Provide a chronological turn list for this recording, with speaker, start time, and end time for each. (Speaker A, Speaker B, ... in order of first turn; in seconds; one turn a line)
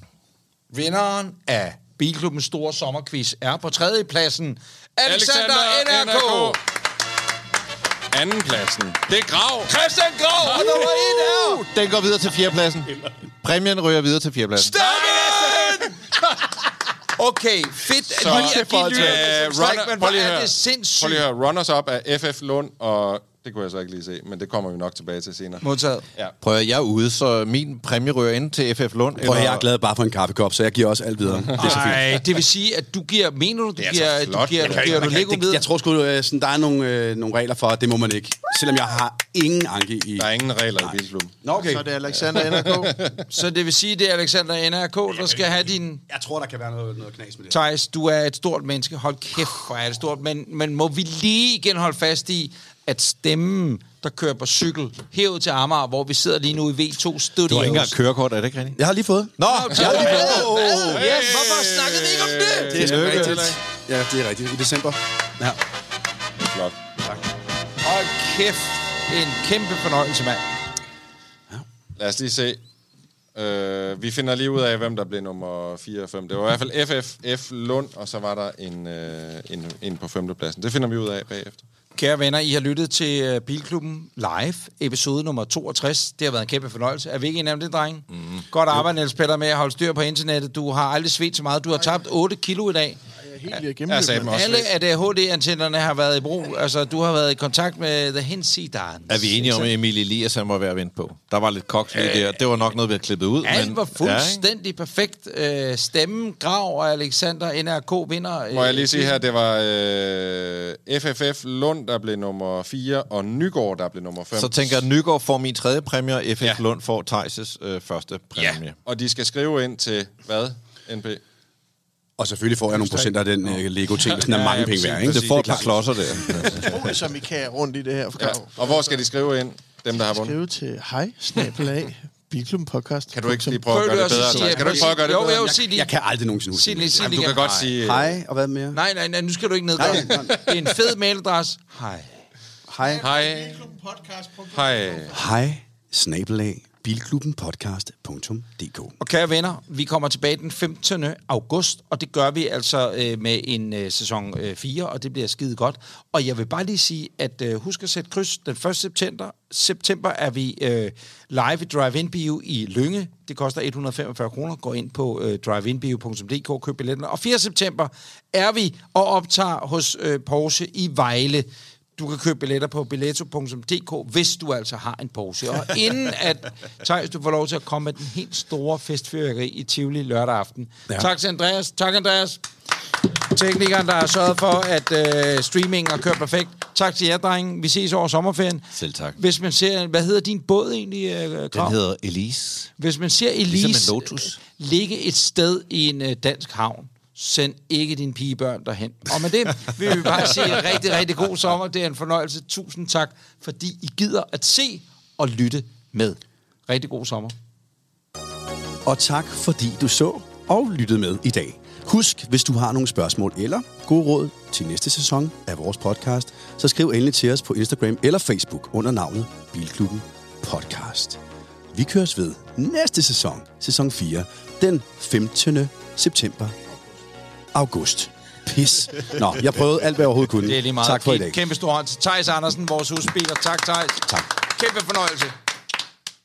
Speaker A: 0.7-6.6
Speaker B: 5.0-6.6
Speaker B: 8.1-9.7
Speaker A: 9.7-11.6
Speaker B: 10.5-11.4
Speaker C: 11.6-12.9
Speaker C: 13.4-14.7
Speaker A: 14.6-16.0
Speaker B: 14.7-15.9
Speaker A: 17.2-21.3
Speaker B: 18.1-25.6
Speaker D: 18.3-19.4
Speaker A: 25.6-26.0
Speaker C: 26.4-29.7
Speaker D: 29.2-32.2
Speaker A: 31.6-35.6
Speaker B: 33.8-35.2
Speaker D: 34.6-42.0
Speaker B: 40.2-41.4
Speaker E: 41.6-42.9
Speaker B: 42.6-43.2
Speaker A: 43.3-46.0
Speaker D: 45.1-47.6
Speaker A: 47.5-57.9
Speaker C: 57.5-58.8
Speaker D: 58.8-61.4
Speaker C: 59.4-59.8
Speaker A: 59.4-63.3
Speaker B: 59.9-63.6
Speaker D: 62.7-65.6
Speaker C: 62.8-63.4
Speaker B: 66.4-66.8
Speaker A: 67.8-70.4
Speaker B: 72.0-72.6
Speaker B: 73.3-81.6
Speaker A: 82.0-93.0
Speaker E: 93.2-94.3
Speaker B: 93.9-94.7
Speaker A: 94.2-99.7
Speaker C: 99.1-104.5
Speaker A: 101.9-102.5
Speaker A: 103.4-109.2
Speaker B: 108.5-114.8
Speaker C: 114.3-118.8
Speaker B: 118.4-121.2
Speaker D: 122.2-125.8
Speaker B: 124.1-125.6
Speaker C: 124.7-127.0
Speaker E: 126.5-129.1
Speaker B: 128.2-130.4
Speaker E: 129.9-133.7
Speaker B: 133.1-135.4
Speaker A: 133.7-135.9
Speaker D: 134.0-138.8
Speaker A: 136.5-137.7
Speaker B: 137.0-138.2
Speaker A: 138.7-142.1
Speaker D: 139.8-140.5
Speaker D: 142.7-143.1
Speaker B: 143.0-143.7
Speaker E: 143.0-145.1
Speaker B: 144.5-145.2
Speaker D: 145.1-148.9
Speaker A: 149.0-182.4
Speaker A: 183.1-191.8
Speaker C: 188.7-189.2
Speaker C: 191.5-192.7
Speaker A: 192.8-207.3
Speaker C: 193.5-194.4
Speaker D: 208.9-221.2
Speaker D: 221.7-226.6
Speaker D: 227.5-231.4
Speaker A: 230.4-235.3